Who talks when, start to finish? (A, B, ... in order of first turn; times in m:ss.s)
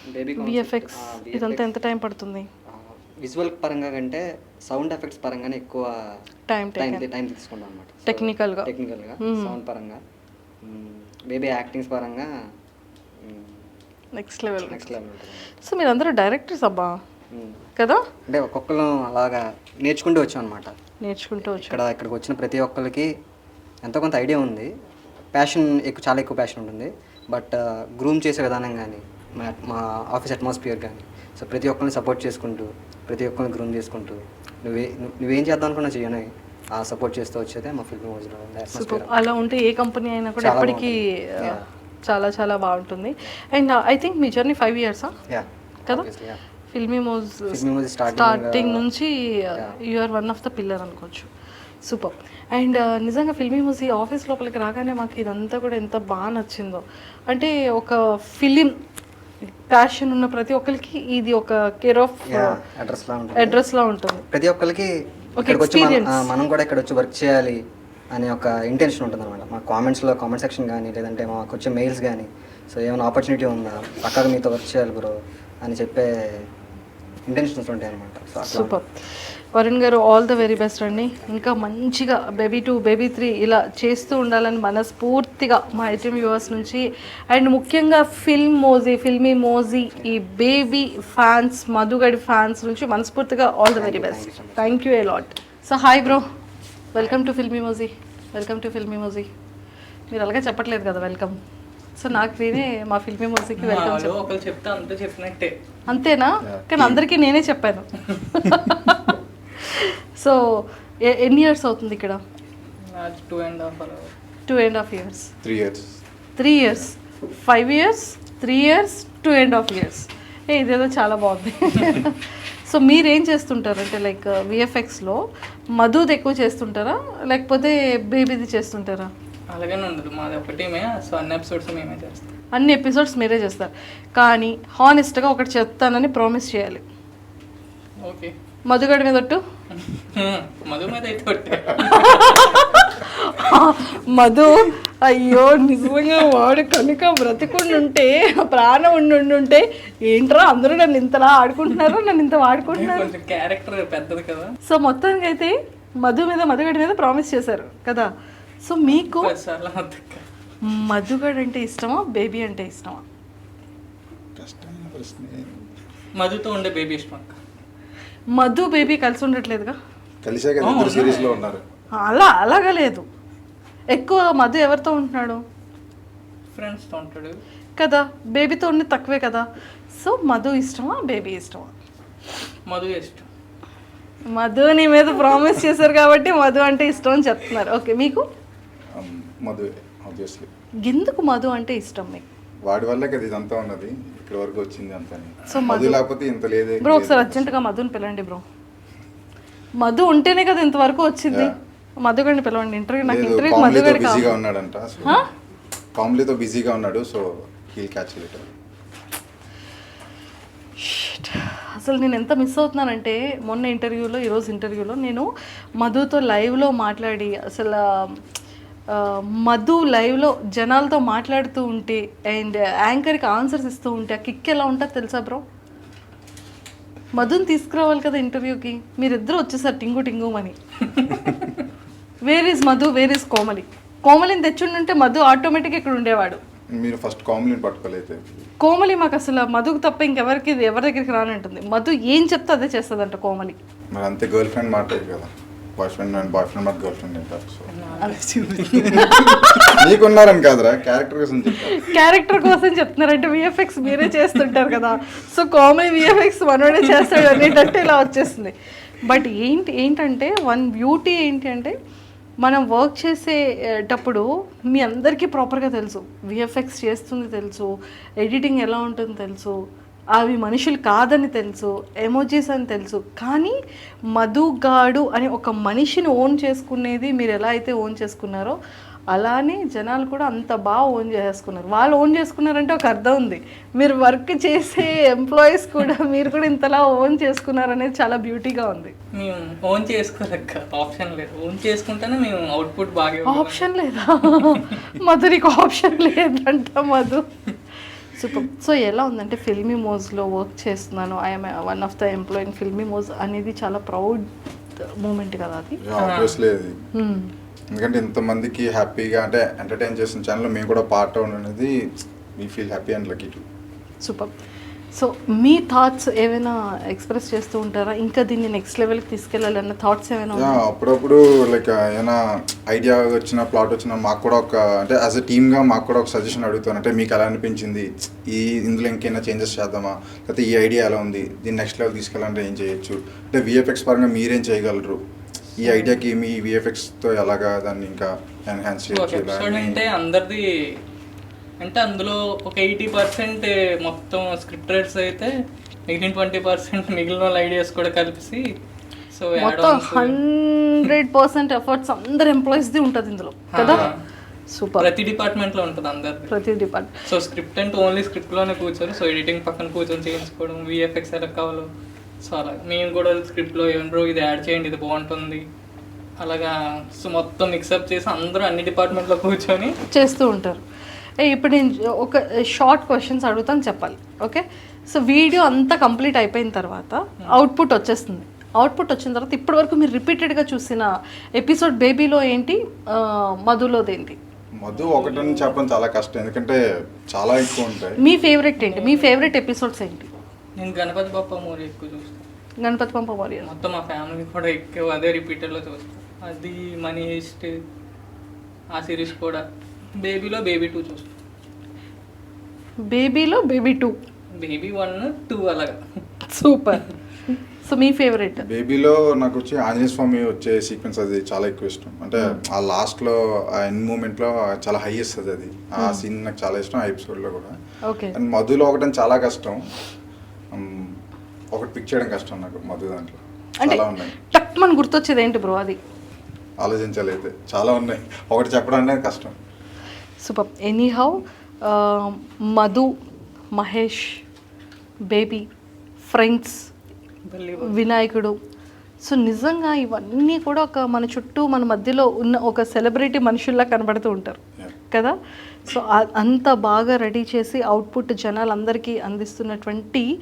0:00.1-0:01.7 A
0:00.4-0:02.4 B
0:02.7-0:06.1 A
0:06.5-0:07.1 B
0:06.8-0:10.0 A
0:08.0-0:08.7 B
0:09.2-0:09.6 B
0:10.6-0:12.3 A
0:13.2-0:13.6 A
0:14.2-0:14.9 B
0:14.6-0:15.5 A
0:15.6-0:17.0 B
0:17.3-0:17.6 A
0:17.8-0:18.0 B
0:18.3-0:20.7 A
0:21.0-0:21.8 B
0:21.4-0:23.1 A
0:23.8-0:24.7 A
0:25.3-0:39.1 A
0:38.7-0:45.1 B
0:40.4-0:41.6 A
0:45.3-0:46.4 A
0:46.7-0:51.3 B
0:47.5-0:48.8 A
0:51.8-0:58.7 B
0:59.7-1:02.6 B
1:02.2-1:03.6 A
1:03.4-1:04.2 B
1:04.3-1:07.6 A
1:05.4-1:06.3 B
1:08.1-1:16.5 A
1:17.3-1:18.8 A
1:18.5-1:19.0 B
1:19.5-1:36.2 B
1:33.7-1:34.8 A
1:36.9-1:39.3 B
1:40.1-1:41.4 B
1:42.0-1:44.2 B
1:43.6-1:45.5 C
1:45.9-1:52.2 B
1:46.5-1:47.0 D
1:52.9-1:54.1 C
1:54.5-1:55.3 B
1:55.4-1:55.9 D
1:56.4-2:05.2 B
2:05.7-2:09.1 B
2:09.5-2:12.3 C
2:12.5-2:16.8 B
2:18.0-2:18.3 C
2:18.6-2:19.4 B
2:19.7-2:22.8 C
2:21.8-2:33.1 B
2:32.7-2:34.5 C
2:34.7-2:38.1 B
2:38.6-2:39.3 B
2:38.9-2:40.2 C
2:40.7-2:43.0 B
2:44.4-2:45.5 D
2:46.2-2:47.4 C
2:48.3-2:49.8 B
2:50.2-2:51.6 D
2:50.6-2:51.4 C
2:52.0-2:53.0 B
2:53.9-2:55.4 B
2:56.5-2:57.4 C
2:57.8-3:01.7 B
3:02.7-3:03.3 C
3:04.3-3:08.2 B
3:08.9-3:10.5 D
3:10.8-3:12.2 B
3:12.6-3:17.5 D
3:15.5-3:16.0 B
3:16.8-3:18.4 B
3:19.8-3:24.4 B
3:23.0-3:25.2 D
3:26.0-3:28.5 D
3:30.8-3:35.3 B
3:35.8-3:38.2 B
3:38.9-3:45.4 B
3:47.1-3:50.6 B
3:52.2-3:56.4 B
3:56.8-3:58.2 D
3:58.6-4:03.6 B
4:03.9-4:07.7 D
4:07.7-4:09.4 C
4:08.0-4:09.7 B
4:08.8-4:12.0 D
4:11.7-4:21.7 B
4:22.4-4:27.7 B
4:28.2-4:29.5 B
4:30.1-4:33.6 B
4:34.1-4:38.5 B
4:39.1-4:48.9 B
4:49.2-4:53.7 C
4:53.3-4:57.2 B
4:58.1-5:04.2 B
5:04.8-5:05.8 B
5:05.8-5:06.8 D
5:06.0-5:06.4 C
5:07.0-5:07.3 B
5:07.7-5:11.7 D
5:12.4-5:13.4 D
5:14.0-5:14.3 B
5:14.9-5:20.6 B
5:20.3-5:35.0 D
5:35.6-5:39.8 D
5:38.9-5:40.4 C
5:41.6-5:45.3 C
5:45.9-5:48.4 C
5:49.1-5:50.2 C
5:49.4-5:53.9 B
5:53.5-5:53.9 C
5:53.6-5:53.9 D
5:54.5-5:54.9 B
5:54.8-5:56.3 C
5:56.3-5:56.9 B
5:57.1-6:01.7 C
6:02.2-6:05.4 C
6:06.2-6:09.8 C
6:09.9-6:10.6 B
6:11.2-6:24.2 B
6:24.6-6:26.6 D
6:24.7-6:25.6 C
6:27.1-6:28.0 D
6:28.0-6:30.1 B
6:28.6-6:29.1 C
6:30.6-6:32.2 C
6:32.6-6:33.5 B
6:33.4-6:37.5 C
6:38.7-6:39.4 C
6:40.0-6:41.1 C
6:42.9-6:43.9 B
6:44.4-6:45.8 C
6:46.3-6:48.4 B
6:48.5-6:57.5 D
6:57.9-6:58.1 B
6:58.1-6:59.6 D
7:00.5-7:00.9 D
7:01.5-7:04.1 D
7:03.7-7:05.8 B
7:06.6-7:09.4 D
7:10.2-7:12.9 B
7:13.5-7:14.2 B
7:15.1-7:15.4 B
7:16.1-7:16.6 B
7:17.3-7:17.8 C
7:17.6-7:18.3 B
7:19.0-7:24.4 B
7:25.7-7:30.1 B